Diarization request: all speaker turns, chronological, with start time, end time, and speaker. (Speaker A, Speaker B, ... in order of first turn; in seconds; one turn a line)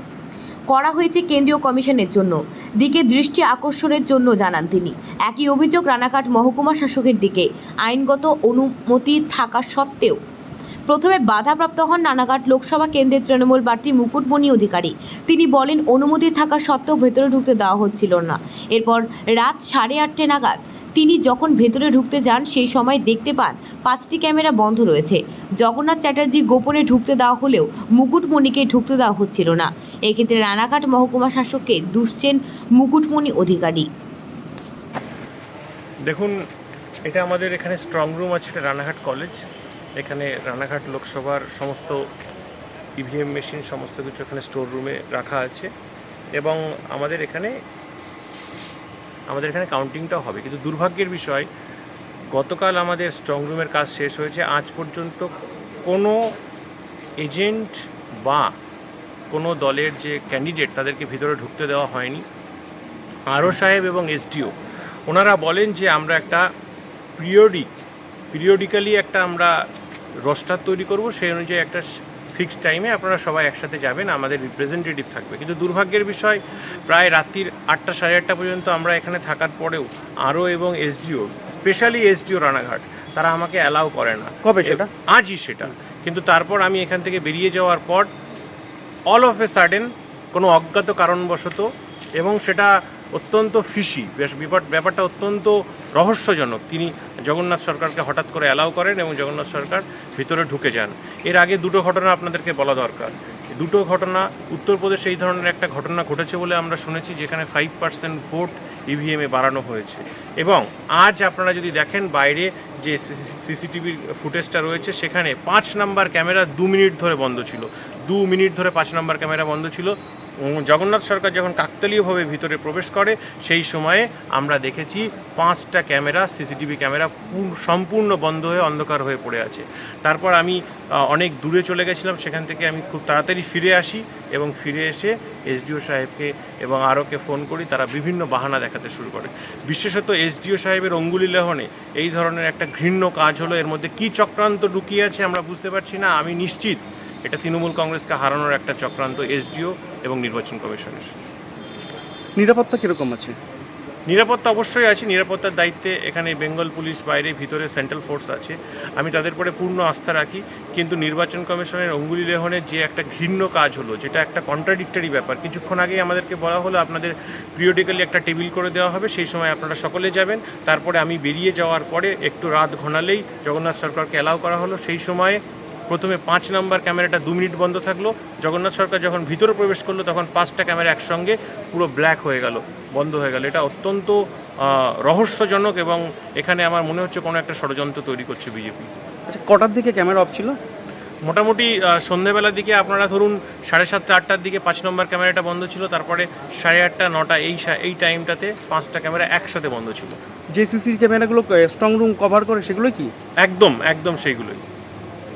Speaker A: 0.7-10.2
Speaker A: 10.9-33.9
Speaker B: 36.1-36.3
Speaker B: 37.1-39.4
Speaker B: 40.0-42.0
Speaker B: 43.0-45.7
Speaker B: 46.4-47.5
Speaker B: 49.3-51.5
Speaker B: 52.3-55.3
Speaker B: 55.9-56.2
Speaker B: 57.2-58.5
Speaker B: 59.3-62.2
Speaker B: 63.3-64.5
Speaker B: 65.1-66.4
Speaker B: 67.2-67.8
Speaker B: 68.3-69.5
Speaker B: 70.2-88.1
Speaker C: 84.4-84.9
Speaker B: 89.1-91.7
Speaker B: 92.2-130.6
Speaker B: 131.1-151.1
Speaker C: 152.4-153.4
Speaker B: 154.1-188.9
Speaker C: 189.3-190.6
Speaker B: 191.2-200.2
Speaker C: 200.5-203.1
Speaker B: 203.4-204.6